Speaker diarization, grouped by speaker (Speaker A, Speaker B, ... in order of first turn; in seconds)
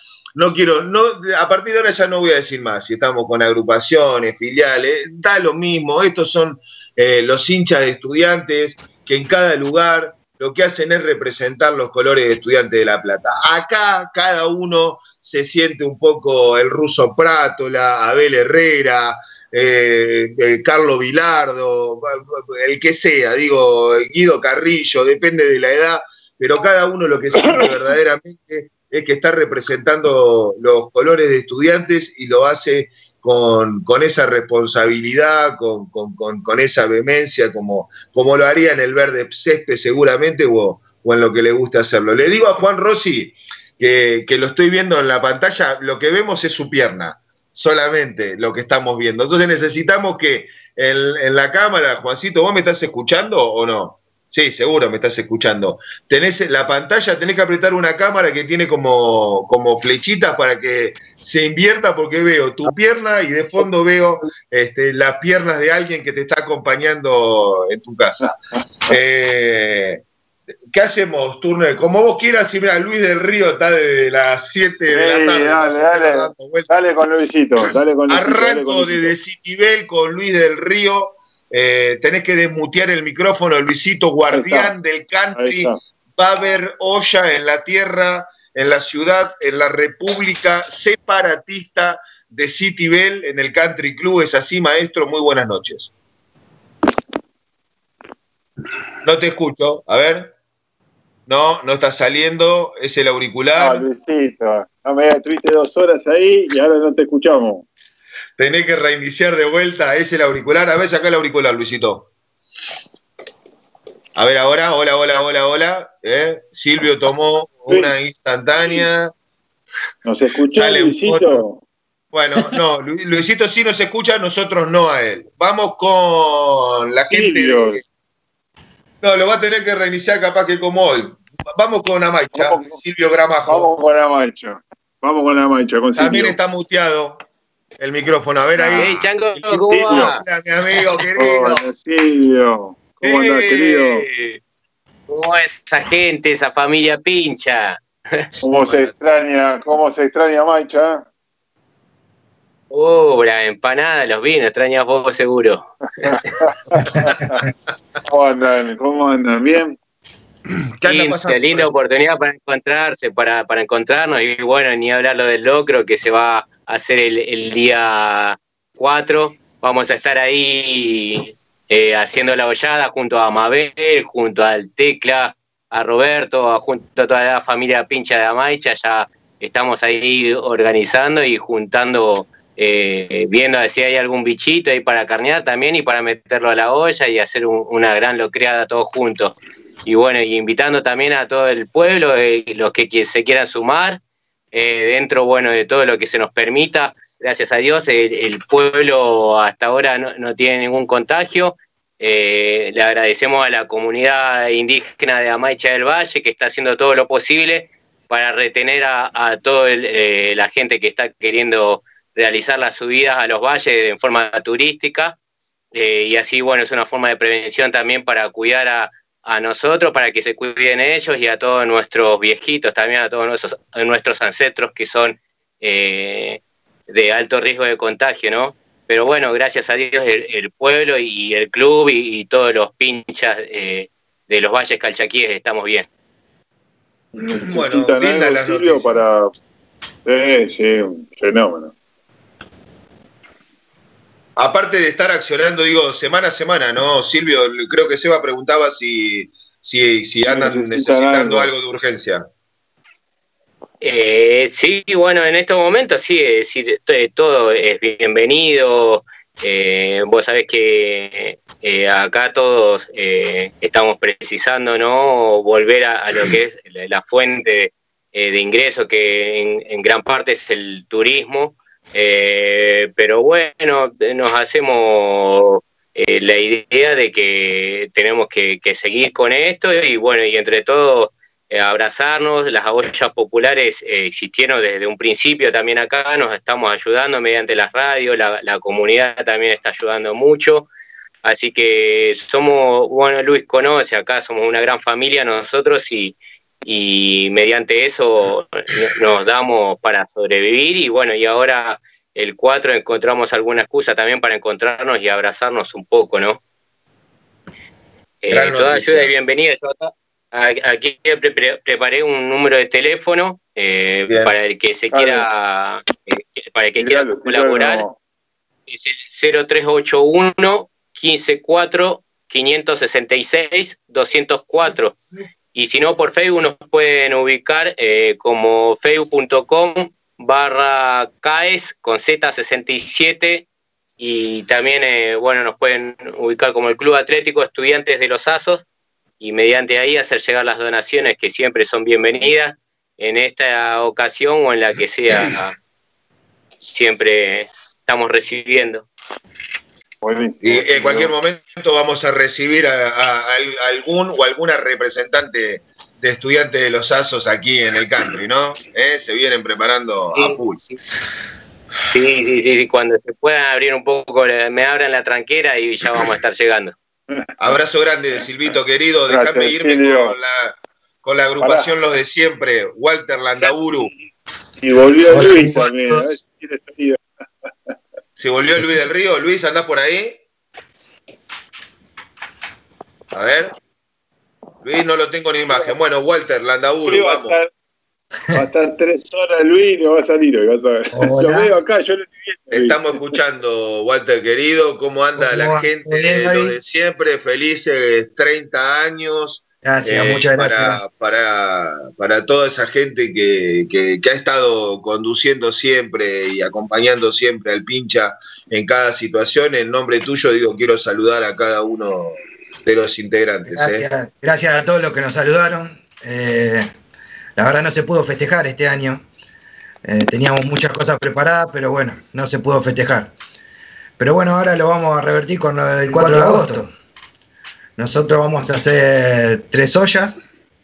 Speaker A: 0.4-68.3, 68.9-70.0, 70.7-76.8, 78.1-95.9, 99.0-100.3, 101.3-103.8, 108.4-112.1, 114.2-119.1, 120.5-121.4, 122.1-127.8, 129.0-133.7, 136.0-137.2, 137.8-141.7, 160.8-161.7, 237.2-239.0, 244.4-252.3, 308.3-309.1, 350.4-360.6, 367.4-373.9, 378.2-380.2, 383.1-383.5, 384.6-387.4, 392.5-413.9
Speaker B: 27.4-27.7, 74.9-79.2, 84.3-84.7, 85.3-85.8, 103.6-107.7, 117.7-117.9, 120.1-121.6, 127.1-127.8, 132.3-132.8, 133.5-136.4, 139.7-140.1, 141.2-144.0, 148.4-151.1, 156.0-157.3, 158.1-159.8, 237.2-239.3, 240.1-241.7, 250.2-251.5, 314.9-315.3, 316.8-318.0, 350.0-351.1, 369.1-370.1, 371.4-371.7, 374.6-377.0, 386.9-387.5, 388.3-392.8
Speaker C: 138.6-140.2, 143.0-144.4, 145.1-148.3, 152.7-155.7, 160.8-194.0, 194.5-215.2, 215.7-235.9, 253.8-290.7, 291.2-306.4, 308.2-317.9, 318.7-325.0, 325.5-333.5, 334.0-338.6, 339.2-345.6, 346.6-348.9, 360.1-360.8, 361.9-366.8
Speaker D: 375.1-376.1, 390.9-391.5, 395.2-396.6, 399.6-400.8, 413.5-416.7, 417.4-419.0, 419.8-423.1, 424.0-426.7, 427.8-430.2